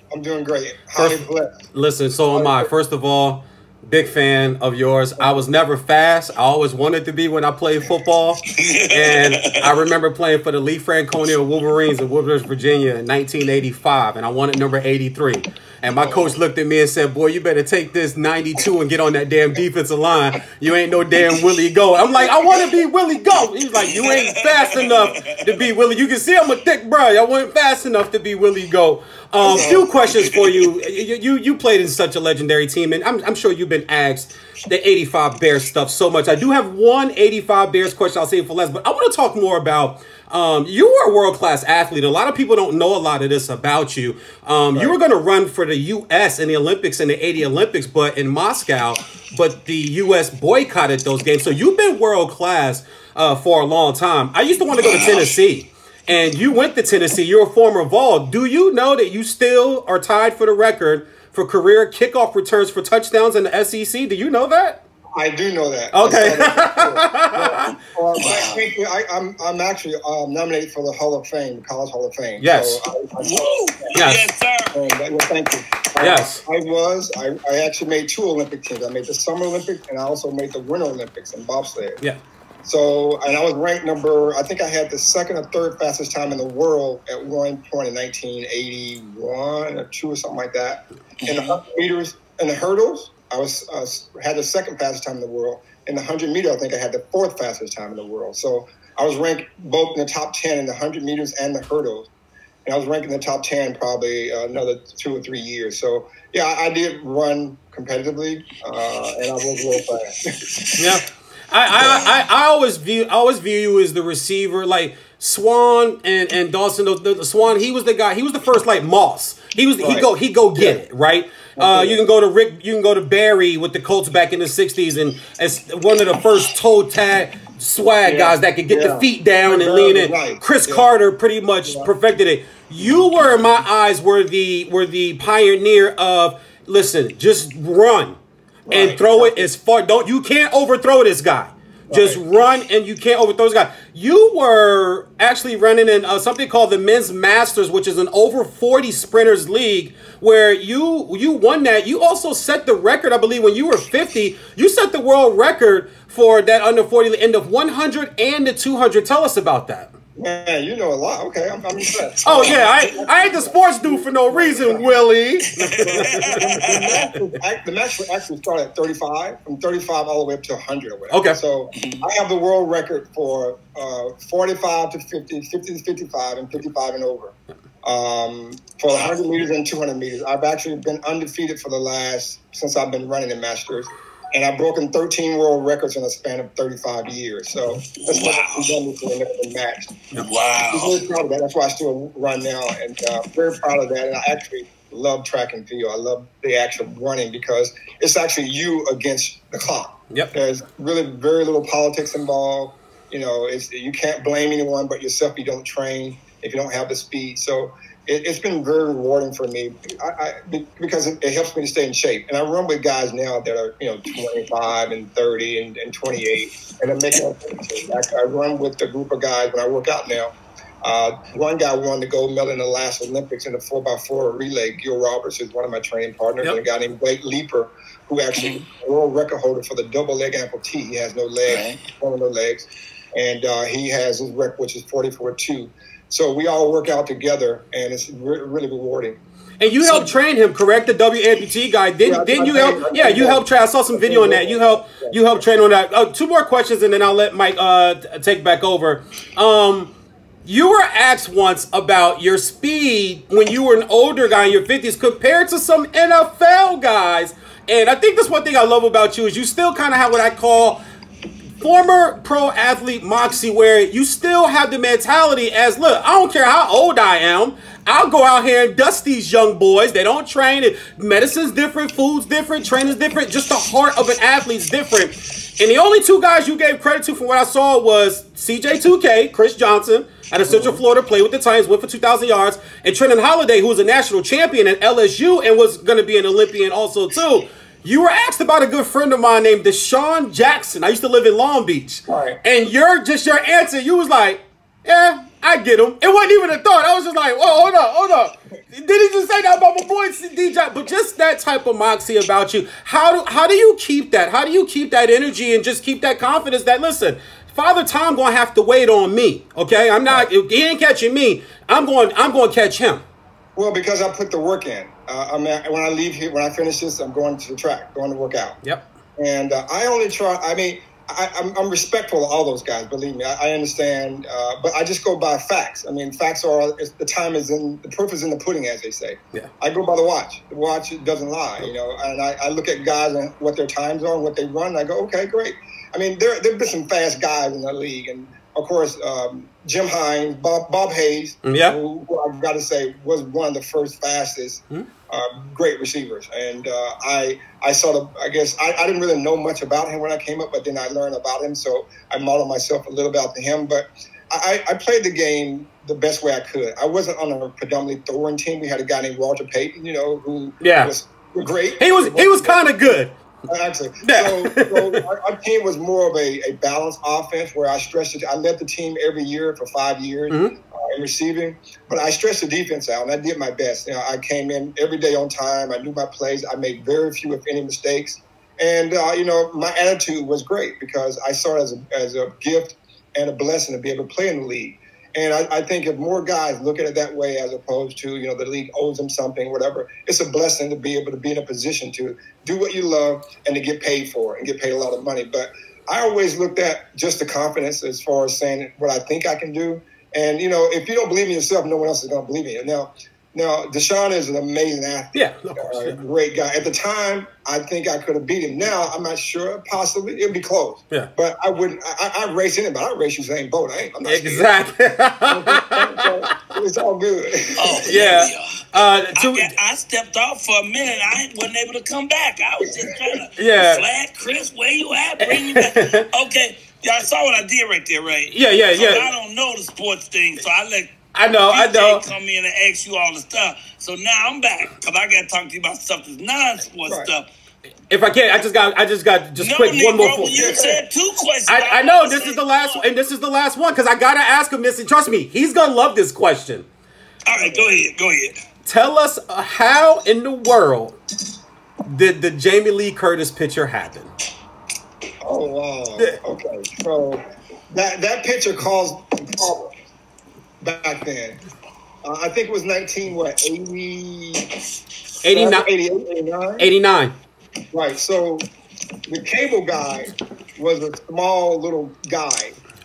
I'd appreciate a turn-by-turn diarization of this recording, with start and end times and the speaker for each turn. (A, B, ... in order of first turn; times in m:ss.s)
0:00.1-0:01.6 A
0:01.0-1:04.8 B
0:02.3-0:02.7 A
0:08.6-0:09.7 C
0:16.0-0:16.4 A
0:22.4-0:22.7 A
0:23.8-0:25.4 C
0:29.4-0:29.9 A
0:29.5-0:30.7 C
0:54.8-0:55.3 C
1:05.2-1:14.0 A
1:05.9-1:07.7 B
1:08.2-1:08.6 C
1:12.4-1:12.8 B
1:13.2-1:14.8 C
1:14.0-1:14.3 B
1:14.7-1:22.0 A
1:16.0-1:16.4 B
1:22.6-1:42.1 A
1:31.2-1:31.6 C
1:42.7-1:50.2 A
1:50.8-2:39.9 B
1:51.8-1:52.2 C
1:59.8-2:00.8 A
2:01.6-2:02.0 A
2:08.0-2:10.9 A
2:11.6-2:11.9 A
2:18.7-2:19.5 A
2:21.9-2:22.2 A
2:40.2-2:44.9 A
2:42.2-2:47.3 B
2:42.3-2:43.0 C
2:45.6-2:47.1 C
2:45.8-3:10.0 A
2:51.1-2:51.4 B
2:51.8-2:52.0 C
2:58.9-2:59.2 C
3:08.0-3:08.8 C
3:10.1-3:11.0 C
3:10.7-3:59.2 A
3:48.4-3:48.6 C
3:51.5-3:51.8 C
3:59.6-4:09.9 B
4:02.0-4:05.5 A
4:10.4-4:20.8 B
4:21.6-5:13.0 B
4:40.5-4:40.8 A
4:52.1-4:52.4 A
5:13.6-5:18.6 A
5:19.2-6:03.0 A
5:41.4-5:41.8 B
6:00.6-6:00.9 B
6:01.8-6:03.2 B
6:03.5-6:54.5 A
6:04.0-6:05.0 B
6:45.1-6:46.0 B
6:54.0-6:56.1 B
6:55.3-6:57.8 A
6:57.6-6:58.6 C
6:57.8-6:59.5 B
6:59.2-7:17.3 C
7:03.4-7:03.8 B
7:05.2-7:06.1 B
7:08.3-7:09.1 B
7:11.1-7:12.0 B
7:17.9-7:20.5 B
7:19.4-7:22.8 C
7:20.3-7:20.8 A
7:21.5-7:26.7 B
7:27.3-7:28.3 C
7:27.3-7:27.8 A
7:28.7-7:31.0 B
7:31.8-7:34.1 B
7:35.2-7:37.2 A
7:37.7-7:39.8 A
7:40.6-7:41.4 A
7:42.0-7:44.5 A
7:45.2-7:45.7 B
7:45.3-7:46.7 A
7:46.6-7:47.2 B
7:47.7-7:48.5 A
7:49.1-7:52.6 A